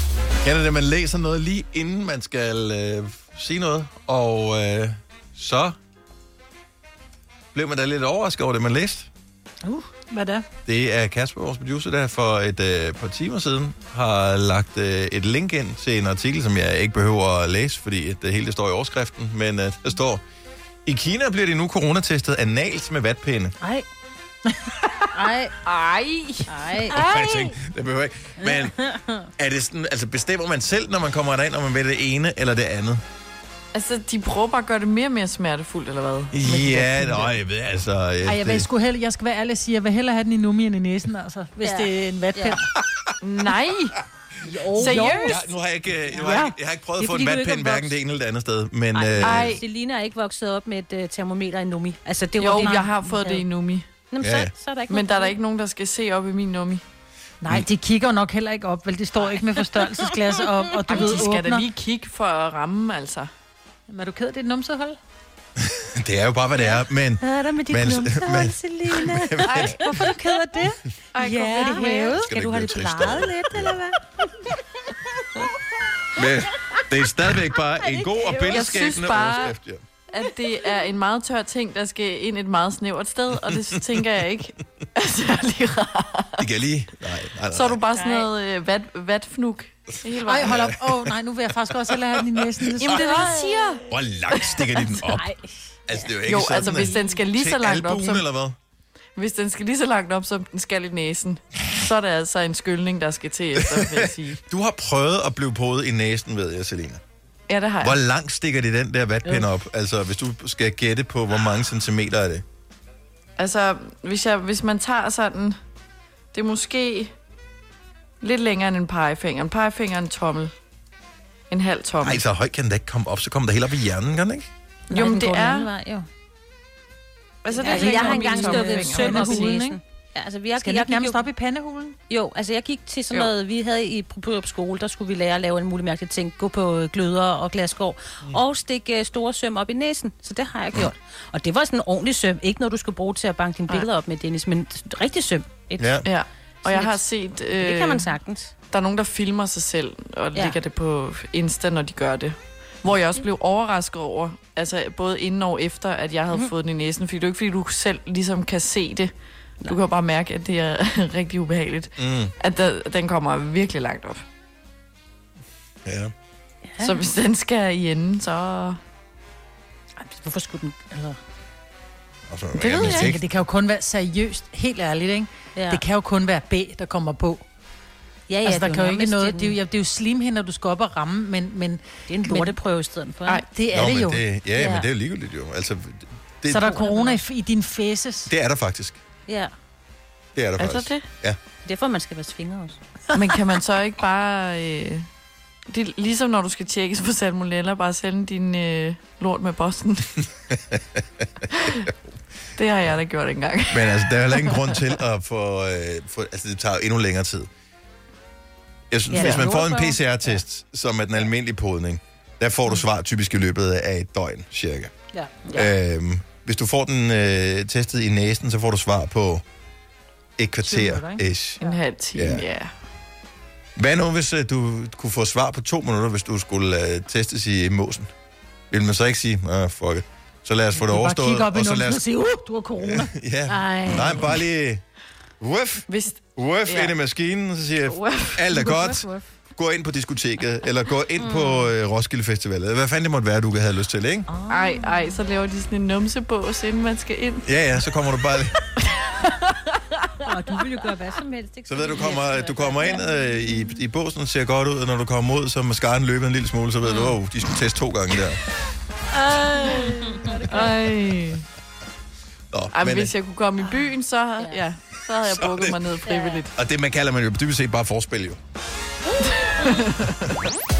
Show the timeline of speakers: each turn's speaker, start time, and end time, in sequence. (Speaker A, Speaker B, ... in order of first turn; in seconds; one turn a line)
Speaker A: 0.4-5.8
Speaker A: 7.5-9.1
Speaker B: 9.7-10.4
Speaker A: 10.7-20.2
Speaker A: 20.9-23.6
Speaker C: 25.1-25.5
Speaker D: 25.6-26.5
Speaker C: 26.5-27.0
Speaker B: 26.9-27.6
Speaker A: 26.9-33.0
Speaker D: 33.7-37.3
Speaker A: 36.3-38.7
Speaker B: 38.2-42.7
Speaker C: 41.6-42.6
Speaker D: 43.2-44.0
Speaker B: 44.4-45.3
Speaker C: 44.5-45.5
Speaker D: 44.7-45.4
Speaker A: 44.9-49.6
Speaker B: 46.1-46.5
Speaker C: 46.2-47.9
Speaker C: 48.9-53.4
Speaker D: 49.2-49.6
Speaker D: 52.4-53.9
Speaker C: 54.1-55.4
Speaker A: 54.2-54.5
Speaker D: 54.9-56.8
Speaker B: 57.4-61.6
Speaker C: 60.8-61.1
Speaker D: 60.9-63.3
Speaker B: 63.9-65.0
Speaker A: 65.6-69.8
Speaker C: 66.6-74.0
Speaker D: 69.4-70.1
Speaker B: 69.8-70.8
Speaker D: 71.1-72.2
Speaker B: 71.6-72.1
Speaker A: 72.1-73.8
Speaker A: 76.2-79.8
Speaker C: 77.9-78.9
Speaker D: 78.5-79.5
Speaker D: 80.1-86.4
Speaker A: 86.4-87.8
Speaker D: 87.5-90.7
Speaker C: 87.9-88.3
Speaker B: 90.2-93.7
Speaker A: 90.5-91.1
Speaker D: 92.8-93.8
Speaker A: 92.9-93.1
Speaker A: 93.9-95.3
Speaker A: 95.9-98.5
Speaker D: 96.2-98.2
Speaker D: 99.2-104.4
Speaker A: 103.7-107.0
Speaker D: 107.5-108.0
Speaker A: 107.8-112.4
Speaker D: 113.4-115.5
Speaker D: 116.3-117.1
Speaker D: 118.2-120.5
Speaker D: 121.5-122.2
Speaker A: 122.0-124.5
Speaker C: 124.9-126.1
Speaker D: 124.9-125.7
Speaker D: 127.4-129.6
Speaker C: 127.5-131.2
Speaker B: 127.6-129.8
Speaker B: 130.6-132.0
Speaker C: 132.1-146.0
Speaker A: 145.8-146.0
Speaker D: 146.0-148.1
Speaker C: 146.6-147.0
Speaker C: 147.6-148.5
Speaker D: 148.7-159.1
Speaker D: 159.6-164.2
Speaker A: 162.0-162.3
Speaker A: 165.8-166.1
Speaker C: 166.7-167.0
Speaker D: 166.8-168.8
Speaker C: 170.0-171.2
Speaker A: 172.3-173.2
Speaker B: 172.6-177.4
Speaker C: 172.7-173.1
Speaker C: 175.5-175.8
Speaker C: 178.3-179.6
Speaker B: 178.4-182.6
Speaker C: 182.1-183.4
Speaker B: 183.3-184.2
Speaker A: 183.7-186.8
Speaker C: 184.5-184.9
Speaker B: 186.5-188.3
Speaker C: 186.5-187.2
Speaker A: 188.3-189.0
Speaker C: 189.3-189.5
Speaker A: 190.3-191.4
Speaker D: 190.6-191.1
Speaker C: 191.6-192.8
Speaker D: 193.1-195.1
Speaker D: 195.7-200.2
Speaker D: 201.5-201.9
Speaker D: 202.5-204.8
Speaker A: 203.7-207.5
Speaker A: 208.9-214.9
Speaker B: 209.1-210.0
Speaker D: 209.2-209.4
Speaker B: 215.1-215.5
Speaker A: 215.5-219.4
Speaker A: 220.4-221.6
Speaker B: 220.6-221.7
Speaker D: 221.6-222.7
Speaker A: 222.1-222.4
Speaker A: 223.8-228.1
Speaker A: 228.7-232.0
Speaker B: 230.7-234.4
Speaker A: 232.8-234.8
Speaker A: 235.4-244.3
Speaker D: 235.9-236.9
Speaker D: 237.8-238.4
Speaker C: 241.2-241.7
Speaker D: 244.5-247.5
Speaker A: 247.4-248.6
Speaker D: 248.8-249.8
Speaker C: 250.2-253.0
Speaker A: 251.7-258.4
Speaker D: 256.9-257.1
Speaker C: 259.3-260.8
Speaker B: 259.3-259.6
Speaker D: 259.5-261.4
Speaker A: 262.5-263.1
Speaker D: 262.7-266.5
Speaker A: 265.2-265.8
Speaker C: 266.1-266.4
Speaker A: 266.5-268.4
Speaker C: 269.2-269.8
Speaker D: 269.3-270.3